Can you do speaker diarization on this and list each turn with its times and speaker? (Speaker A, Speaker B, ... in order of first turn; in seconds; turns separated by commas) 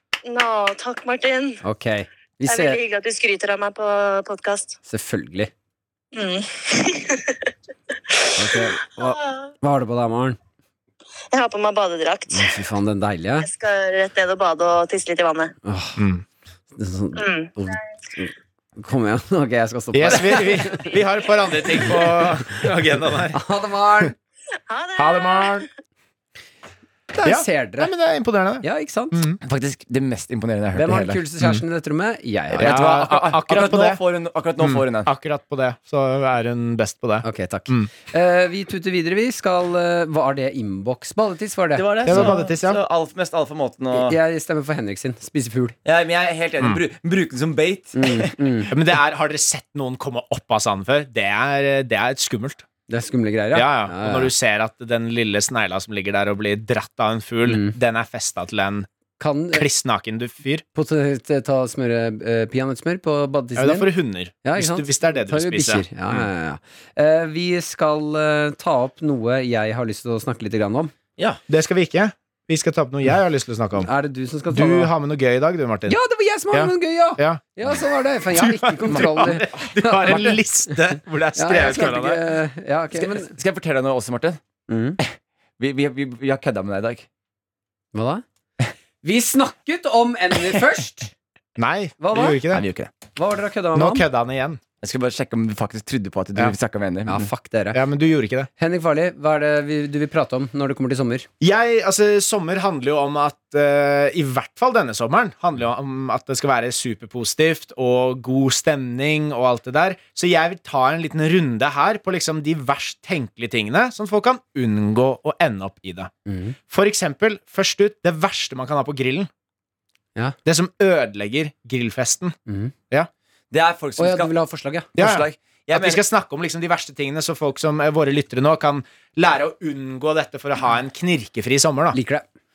Speaker A: 0.2-1.6, Speaker B: 1.6-2.8, Speaker A: 2.5-4.8, Speaker B: 4.8-5.5, Speaker A: 6.1-7.5, Speaker A: 8.1-9.3, Speaker B: 8.3-10.4, Speaker A: 11.3-12.5, Speaker B: 12.3-13.5, Speaker A: 13.4-15.5, Speaker B: 15.6-16.0, Speaker C: 16.0-16.2, Speaker B: 16.7-20.9, Speaker A: 17.2-17.5, Speaker C: 19.9-23.4, Speaker B: 23.3-24.1, Speaker A: 24.7-25.6, Speaker C: 24.9-25.7, Speaker B: 27.1-27.9, Speaker C: 27.2-29.4, Speaker B: 28.6-29.2, Speaker D: 29.4-31.2, Speaker B: 30.7-32.8, Speaker D: 32.5-35.1, Speaker C: 32.6-34.0, Speaker C: 34.6-37.9, Speaker B: 37.2-42.4, Speaker D: 41.8-44.2, Speaker C: 42.0-42.8, Speaker B: 43.9-45.8, Speaker D: 45.8-48.7, Speaker B: 48.0-48.7, Speaker C: 48.7-52.6, Speaker B: 52.9-54.3, Speaker C: 53.5-58.9, Speaker B: 57.5-57.8, Speaker B: 59.2-59.6, Speaker C: 59.5-60.6, Speaker B: 60.7-63.9, Speaker C: 63.5-66.2, Speaker B: 64.4-70.9, Speaker C: 71.5-73.9, Speaker B: 73.8-74.9, Speaker C: 74.5-76.0, Speaker B: 75.9-80.7, Speaker C: 76.5-77.4, Speaker C: 78.3-82.2, Speaker D: 78.9-79.4, Speaker D: 80.0-80.4, Speaker B: 81.3-83.3, Speaker D: 82.9-84.4, Speaker B: 84.7-85.0, Speaker D: 85.0-87.0, Speaker B: 87.9-88.2, Speaker B: 89.0-91.1, Speaker C: 91.6-92.6, Speaker B: 92.0-92.4, Speaker D: 92.3-92.9, Speaker B: 93.1-94.0, Speaker C: 93.7-94.6, Speaker D: 94.8-97.3, Speaker B: 97.1-97.8, Speaker C: 97.7-98.5, Speaker B: 98.6-101.3, Speaker C: 101.4-116.1, Speaker B: 116.2-116.5, Speaker C: 116.7-119.3, Speaker C: 120.4-122.3, Speaker B: 122.5-122.7, Speaker D: 123.5-124.3, Speaker B: 124.0-124.9, Speaker D: 124.9-126.0, Speaker C: 125.0-132.0, Speaker B: 131.9-132.2